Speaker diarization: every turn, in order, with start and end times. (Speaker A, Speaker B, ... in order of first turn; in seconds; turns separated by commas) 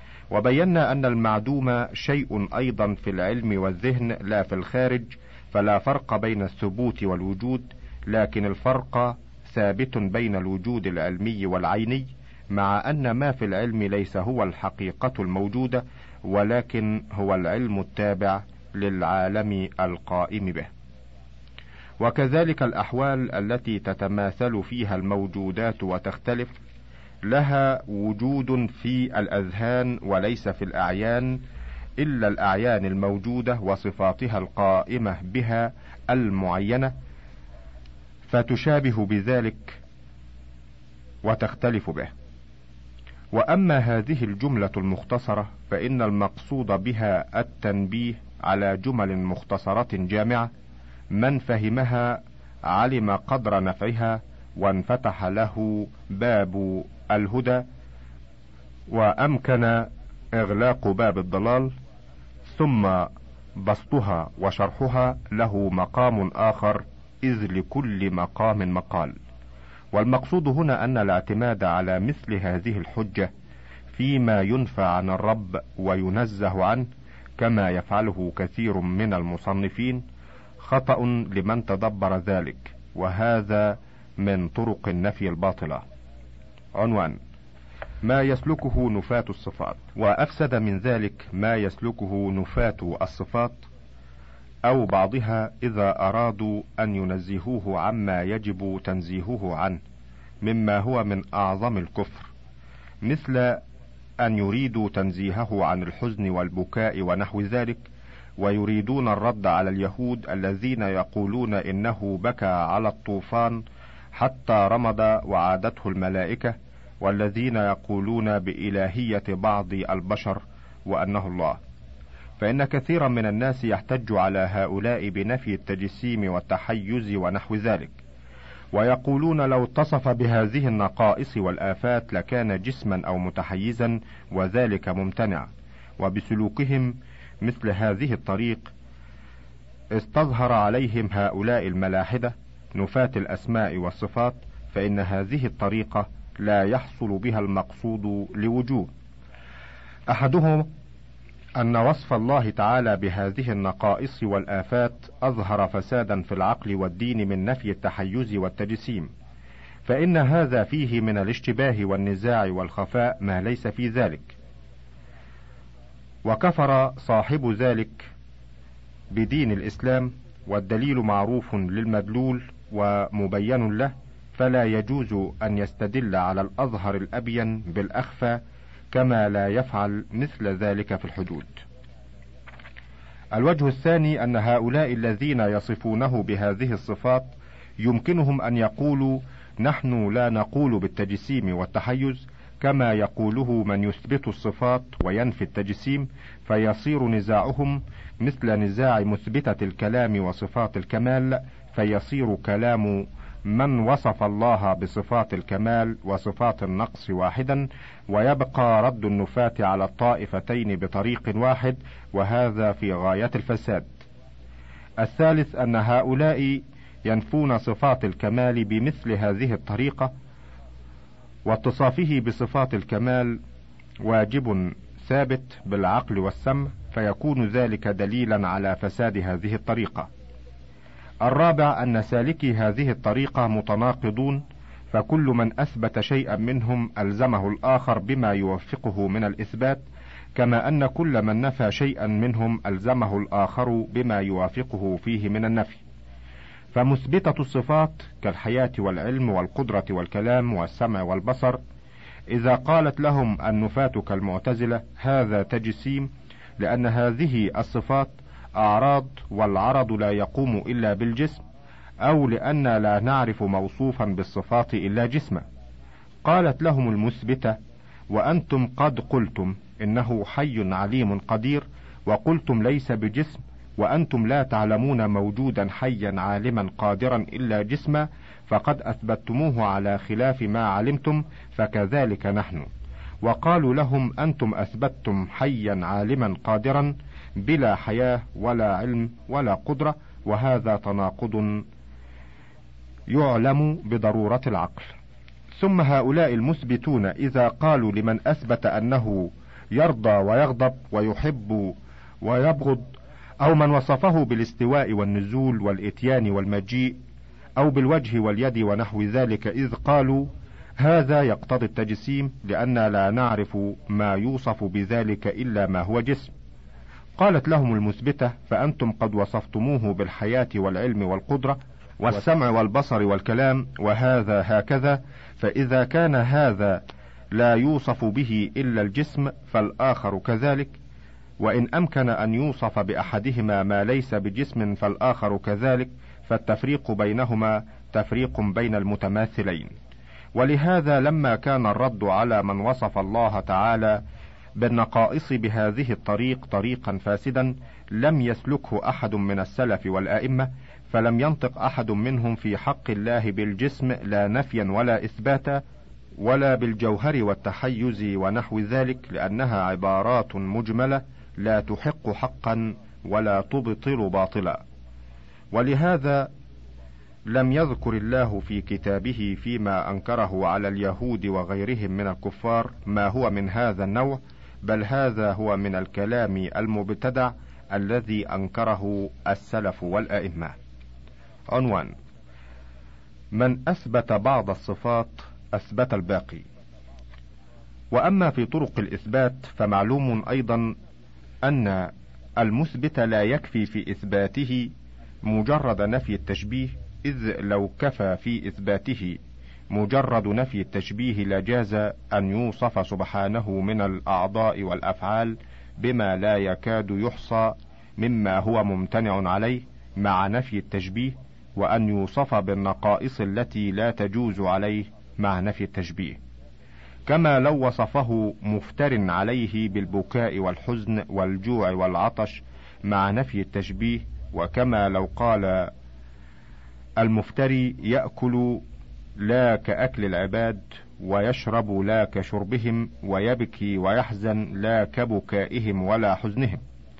Speaker A: 0.3-20.7, Speaker A: 22.0-26.5, Speaker A: 27.2-31.4, Speaker A: 32.0-36.9, Speaker A: 38.3-39.8, Speaker A: 41.2-42.1, Speaker A: 43.3-50.5, Speaker A: 51.1-57.6, Speaker A: 58.9-61.7, Speaker A: 62.5-69.1, Speaker A: 69.9-73.3, Speaker A: 73.9-80.0, Speaker A: 80.6-85.8, Speaker A: 86.7-87.2, Speaker A: 88.0-93.6, Speaker A: 94.6-99.8, Speaker A: 100.4-102.3, Speaker A: 103.0-103.6, Speaker A: 104.2-107.8, Speaker A: 108.4-113.6, Speaker A: 114.1-121.6, Speaker A: 122.4-128.0, Speaker A: 128.7-135.5, Speaker A: 136.0-138.7, Speaker A: 139.9-148.9, Speaker A: 150.1-150.7, Speaker A: 151.6-159.1, Speaker A: 159.8-164.3, Speaker A: 166.2-168.1, Speaker A: 169.1-178.4, Speaker A: 178.9-181.6, Speaker A: 183.3-213.9, Speaker A: 215.0-220.1, Speaker A: 221.4-223.4, Speaker A: 224.0-230.1, Speaker A: 231.2-239.8, Speaker A: 240.3-245.8, Speaker A: 246.7-251.6, Speaker A: 252.3-261.4, Speaker A: 262.0-265.4, Speaker A: 266.2-267.6, Speaker A: 268.1-282.7, Speaker A: 283.2-291.6, Speaker A: 293.1-294.9, Speaker A: 295.6-307.0, Speaker A: 307.6-316.3, Speaker A: 317.2-330.8, Speaker A: 331.4-339.7, Speaker A: 340.3-344.0, Speaker A: 344.6-355.6, Speaker A: 356.2-364.6, Speaker A: 365.5-366.3, Speaker A: 367.2-380.6, Speaker A: 381.5-381.9, Speaker A: 383.3-386.4, Speaker A: 387.9-390.8, Speaker A: 391.4-394.7, Speaker A: 395.2-399.2, Speaker A: 399.7-416.2, Speaker A: 417.1-425.7, Speaker A: 427.0-428.6, Speaker A: 429.2-436.6